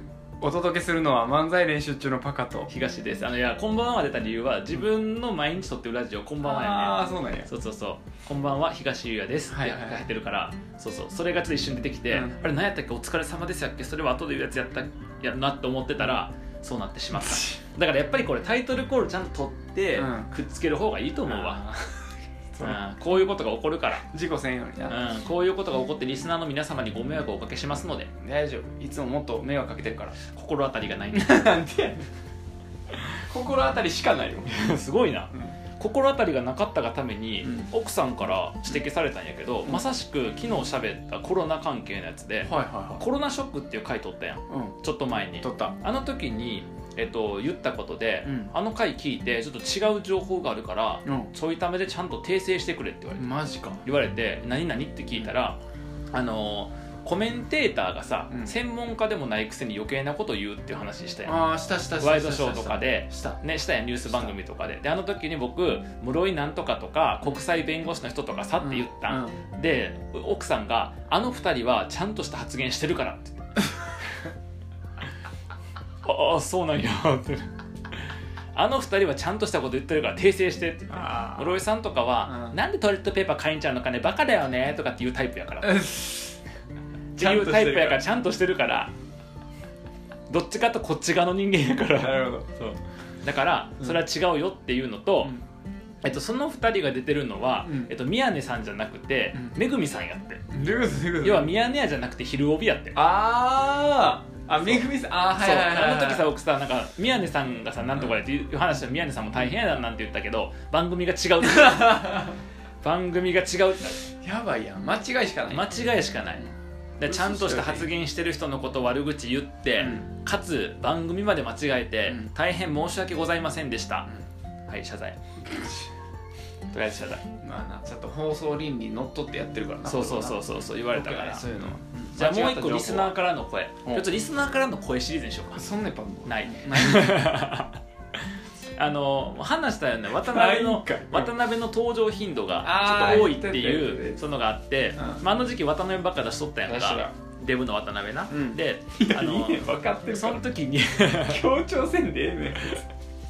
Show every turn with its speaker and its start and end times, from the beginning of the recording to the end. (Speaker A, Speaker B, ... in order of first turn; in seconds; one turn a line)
Speaker A: 0.4-2.7
Speaker B: 2.7-21.8
Speaker A: 6.4-7.5
Speaker A: 9.5-10.1
Speaker A: 12.1-12.4
Speaker A: 17.2-17.6
Speaker A: 19.9-20.3
Speaker A: 21.3-21.8
Speaker A: 22.5-22.8
Speaker B: 22.6-24.1
Speaker A: 24.1-25.0
Speaker B: 24.9-28.1
Speaker A: 28.2-30.2
Speaker B: 30.2-31.5
Speaker A: 31.1-32.1
Speaker A: 33.1-34.8
Speaker B: 34.5-53.3
Speaker A: 37.4-37.7
Speaker A: 42.4-43.0
Speaker A: 44.5-44.8
Speaker A: 45.4-45.8
Speaker A: 48.2-48.5
Speaker A: 51.1-51.3
Speaker A: 53.2-53.8
Speaker B: 53.8-55.6
Speaker B: 56.1-61.4
Speaker A: 61.2-63.4
Speaker B: 62.0-73.5
Speaker A: 64.1-64.3
Speaker A: 68.6-69.4
Speaker B: 76.0-77.5
Speaker B: 78.5-85.9
Speaker A: 80.9-81.6
Speaker A: 82.2-82.6
Speaker A: 85.6-86.4
Speaker B: 87.2-88.9
Speaker A: 87.2-88.0
Speaker B: 90.3-95.3
Speaker A: 92.0-92.5
Speaker B: 96.0-100.4
Speaker A: 97.6-98.0
Speaker A: 100.5-101.5
Speaker B: 101.2-103.0
Speaker A: 102.9-106.3
Speaker B: 104.6-114.1
Speaker A: 111.4-112.4
Speaker A: 114.2-115.7
Speaker B: 115.5-124.1
Speaker A: 117.0-117.9
Speaker A: 119.8-120.1
Speaker B: 124.7-125.2
Speaker A: 125.5-125.9
Speaker B: 126.7-127.3
Speaker A: 127.4-133.2
Speaker B: 129.8-135.6
Speaker A: 135.6-137.3
Speaker B: 136.3-137.8
Speaker B: 138.8-151.4
Speaker A: 140.2-141.3
Speaker A: 142.6-144.2
Speaker A: 145.0-145.2
Speaker A: 146.7-147.1
Speaker A: 148.3-150.5
Speaker A: 151.1-152.9